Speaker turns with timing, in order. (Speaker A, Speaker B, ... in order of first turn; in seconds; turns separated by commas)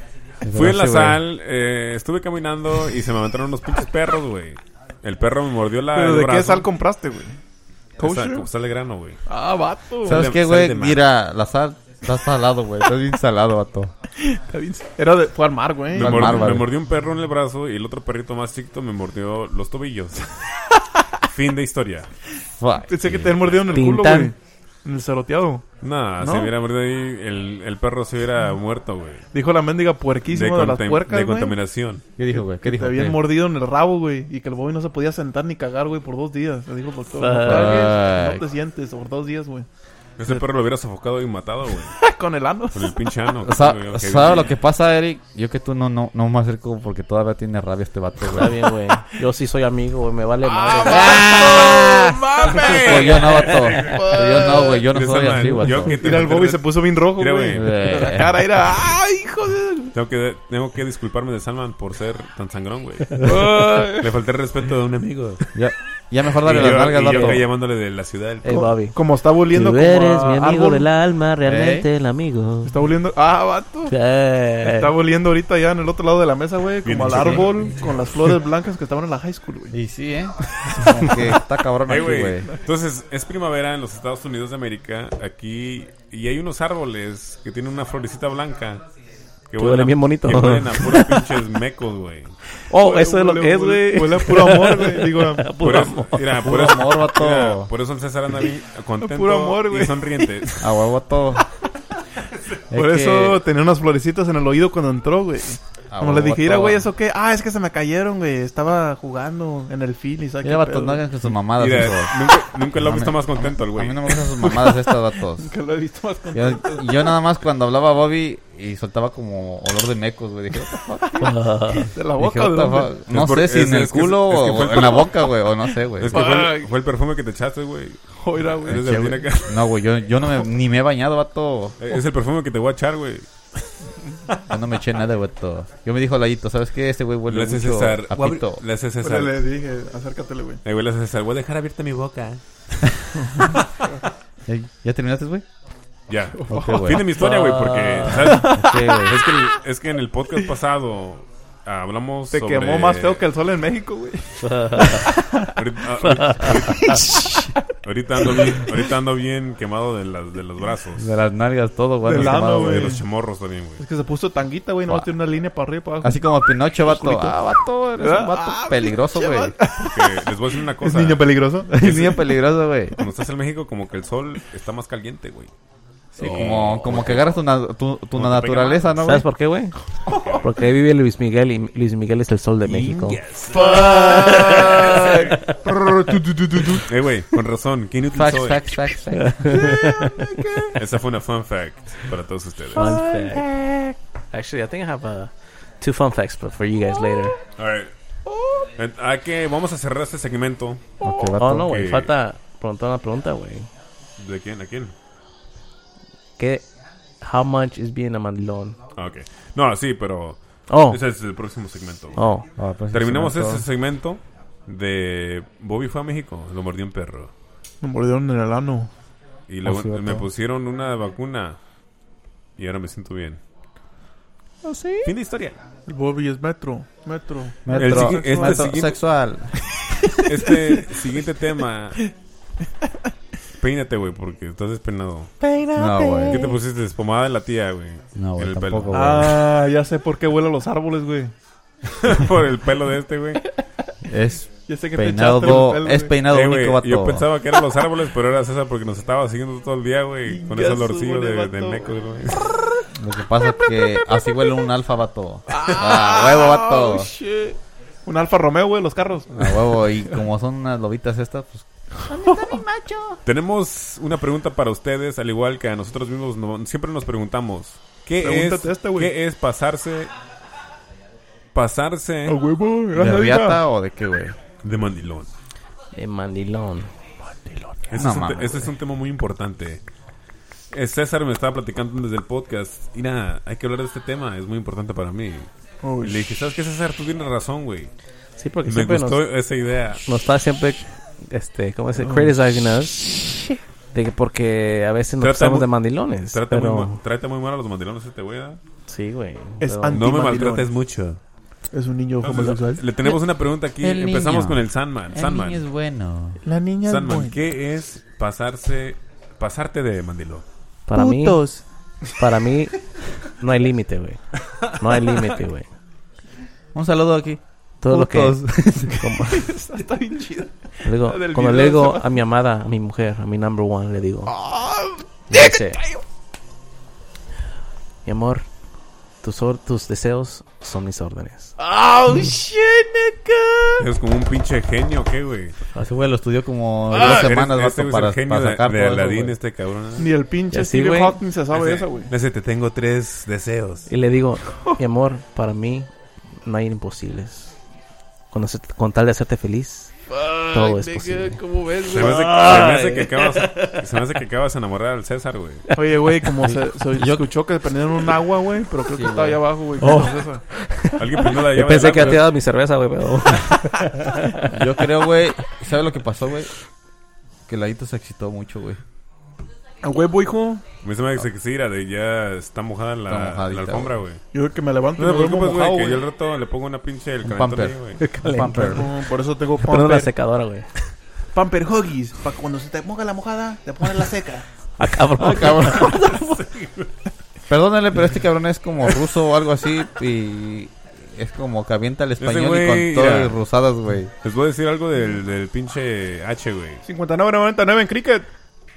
Speaker A: 0.4-1.2, Speaker B: 0.5-6.7, Speaker C: 5.9-7.4, Speaker C: 8.0-8.5, Speaker B: 8.0-9.2, Speaker C: 9.3-10.2, Speaker A: 10.0-13.9, Speaker B: 10.0-11.0, Speaker C: 14.2-16.5, Speaker A: 15.9-16.7, Speaker B: 15.9-20.4, Speaker B: 21.2-22.1, Speaker A: 22.6-23.5, Speaker C: 22.9-25.6, Speaker D: 23.7-24.3, Speaker B: 25.8-29.2, Speaker C: 26.2-26.5, Speaker C: 29.3-31.5, Speaker B: 30.3-32.0, Speaker A: 32.2-33.3, Speaker C: 32.3-39.7, Speaker D: 37.1-37.9, Speaker A: 37.4-38.4, Speaker B: 40.2-42.0, Speaker C: 42.0-42.9, Speaker B: 42.7-44.5, Speaker A: 43.4-48.6, Speaker D: 48.2-51.4, Speaker C: 50.4-54.8, Speaker A: 50.8-56.0, Speaker B: 52.5-54.1, Speaker B: 54.9-58.0, Speaker C: 55.8-59.9, Speaker A: 57.5-58.4, Speaker B: 59.9-65.4, Speaker C: 63.2-64.1, Speaker A: 65.5-67.4, Speaker B: 66.3-68.7, Speaker D: 68.4-69.0, Speaker C: 68.5-70.9, Speaker D: 69.5-72.8, Speaker A: 71.4-71.9, Speaker C: 72.6-73.9, Speaker D: 73.9-74.9, Speaker C: 74.6-79.8, Speaker B: 76.8-77.9, Speaker A: 77.1-77.4, Speaker A: 79.7-82.5, Speaker B: 81.8-88.8, Speaker B: 89.5-92.3, Speaker D: 89.5-91.2, Speaker D: 92.7-96.3, Speaker C: 92.7-95.5, Speaker B: 95.6-100.9, Speaker A: 96.4-97.7, Speaker C: 99.0-100.3, Speaker A: 100.6-101.4, Speaker A: 102.7-103.4, Speaker C: 102.7-111.0, Speaker A: 105.9-106.9, Speaker A: 110.4-115.5, Speaker B: 111.6-114.4, Speaker C: 114.4-117.1, Speaker A: 116.3-121.3, Speaker C: 121.0-122.9, Speaker D: 121.2-121.9, Speaker A: 122.2-126.3, Speaker B: 123.1-125.3, Speaker B: 126.0-129.6, Speaker C: 126.1-126.7, Speaker C: 128.2-128.8, Speaker A: 128.7-131.8, Speaker B: 131.8-133.3, Speaker A: 134.5-138.6, Speaker B: 137.3-139.4, Speaker C: 139.0-140.6, Speaker B: 140.6-143.6, Speaker C: 143.2-144.0, Speaker A: 144.5-145.4, Speaker B: 146.1-153.2, Speaker C: 146.3-146.9, Speaker A: 146.5-147.1, Speaker D: 147.2-148.4, Speaker C: 148.2-148.6, Speaker A: 148.2-149.2, Speaker C: 152.3-155.5, Speaker D: 154.4-155.1, Speaker B: 155.5-157.2, Speaker D: 156.3-156.5, Speaker C: 156.4-157.6, Speaker B: 157.8-161.1, Speaker C: 158.2-158.7, Speaker A: 161.0-163.0, Speaker C: 162.0-163.0, Speaker B: 162.1-163.8, Speaker C: 163.8-166.2, Speaker A: 166.0-169.5, Speaker C: 166.8-167.4, Speaker C: 168.0-172.1, Speaker B: 169.8-171.3, Speaker B: 171.8-172.2, Speaker A: 171.8-172.9, Speaker B: 172.9-175.5, Speaker A: 176.1-179.2, Speaker B: 176.2-177.3, Speaker B: 178.1-179.0, Speaker D: 179.0-179.7, Speaker C: 180.1-180.4, Speaker B: 180.1-180.4, Speaker D: 180.4-183.2, Speaker B: 182.6-185.3, Speaker C: 183.5-186.9, Speaker D: 183.7-185.5, Speaker B: 186.8-188.8, Speaker A: 188.1-189.7, Speaker D: 189.1-190.3, Speaker C: 189.5-190.8, Speaker B: 190.7-193.0, Speaker D: 192.7-193.5, Speaker C: 192.8-193.7, Speaker D: 194.3-197.3, Speaker B: 197.6-197.9, Speaker C: 198.3-198.7, Speaker B: 198.8-202.1, Speaker A: 201.0-201.7, Speaker D: 201.3-203.7, Speaker B: 204.2-204.9, Speaker D: 206.4-206.7, Speaker D: 207.2-208.8, Speaker B: 208.9-212.2, Speaker D: 210.7-211.0, Speaker D: 212.2-212.4, Speaker A: 212.6-213.6, Speaker B: 212.9-217.3, Speaker C: 217.8-218.9, Speaker B: 219.5-221.6, Speaker A: 219.6-220.3, Speaker B: 222.6-223.4, Speaker C: 224.7-225.0, Speaker B: 225.0-225.6, Speaker C: 225.9-228.8, Speaker A: 227.6-229.5, Speaker B: 227.7-229.0, Speaker C: 230.0-231.0, Speaker B: 230.2-232.0, Speaker B: 233.6-235.4, Speaker C: 235.4-236.5, Speaker A: 235.7-236.5, Speaker B: 236.3-239.2, Speaker A: 238.1-239.4, Speaker C: 238.9-241.3, Speaker B: 242.0-243.5, Speaker A: 244.0-247.2, Speaker C: 244.7-246.1, Speaker B: 246.3-252.5, Speaker C: 250.2-251.9, Speaker A: 252.9-257.1, Speaker C: 255.5-259.7, Speaker A: 259.3-263.1, Speaker C: 262.1-262.6, Speaker B: 263.2-270.1, Speaker C: 268.2-269.1, Speaker B: 271.5-272.4, Speaker C: 272.2-273.6, Speaker A: 272.9-274.4, Speaker B: 274.6-275.3, Speaker D: 275.9-276.9, Speaker C: 277.2-277.9, Speaker B: 277.9-279.8, Speaker A: 277.9-278.6, Speaker B: 280.7-285.5, Speaker C: 285.8-286.2, Speaker B: 286.0-287.9, Speaker D: 288.4-289.2, Speaker B: 288.6-290.1, Speaker D: 290.1-297.0, Speaker C: 292.0-292.3, Speaker B: 295.2-298.6, Speaker D: 298.9-300.0, Speaker C: 299.6-300.7, Speaker B: 299.9-301.2, Speaker C: 301.7-302.8, Speaker B: 302.2-305.6, Speaker A: 303.8-306.4, Speaker C: 306.4-307.4, Speaker B: 306.8-310.4, Speaker D: 310.9-311.4, Speaker C: 310.9-311.6, Speaker D: 312.2-315.7, Speaker A: 316.7-319.1, Speaker D: 317.8-319.5, Speaker C: 319.2-322.1, Speaker D: 320.8-324.3, Speaker C: 324.3-326.0, Speaker D: 325.3-325.8, Speaker D: 328.0-328.4, Speaker D: 329.2-331.5, Speaker C: 331.6-333.9, Speaker B: 333.8-335.5, Speaker A: 335.8-339.4, Speaker C: 336.9-337.3, Speaker B: 336.9-340.1, Speaker C: 340.0-342.1, Speaker D: 340.5-341.2, Speaker B: 341.5-343.9, Speaker D: 343.9-345.9, Speaker D: 346.4-347.5, Speaker D: 348.3-349.9, Speaker C: 350.1-352.4, Speaker D: 350.5-351.4, Speaker B: 351.8-355.7, Speaker D: 351.9-353.8, Speaker C: 355.7-360.4, Speaker A: 356.4-357.3, Speaker A: 358.9-359.4, Speaker D: 359.8-364.6, Speaker B: 360.9-362.3, Speaker A: 364.5-366.5, Speaker A: 367.5-368.8, Speaker C: 369.8-370.6, Speaker B: 370.8-374.2, Speaker A: 373.1-373.9, Speaker C: 374.3-376.0, Speaker B: 374.9-378.0, Speaker A: 377.2-378.9, Speaker D: 378.0-378.9, Speaker C: 378.6-380.1, Speaker D: 379.6-380.7, Speaker C: 381.3-384.4, Speaker D: 384.8-386.4, Speaker A: 385.2-386.0, Speaker B: 385.6-386.9, Speaker A: 387.5-394.1, Speaker B: 392.2-393.4, Speaker B: 394.2-396.8, Speaker C: 396.8-398.3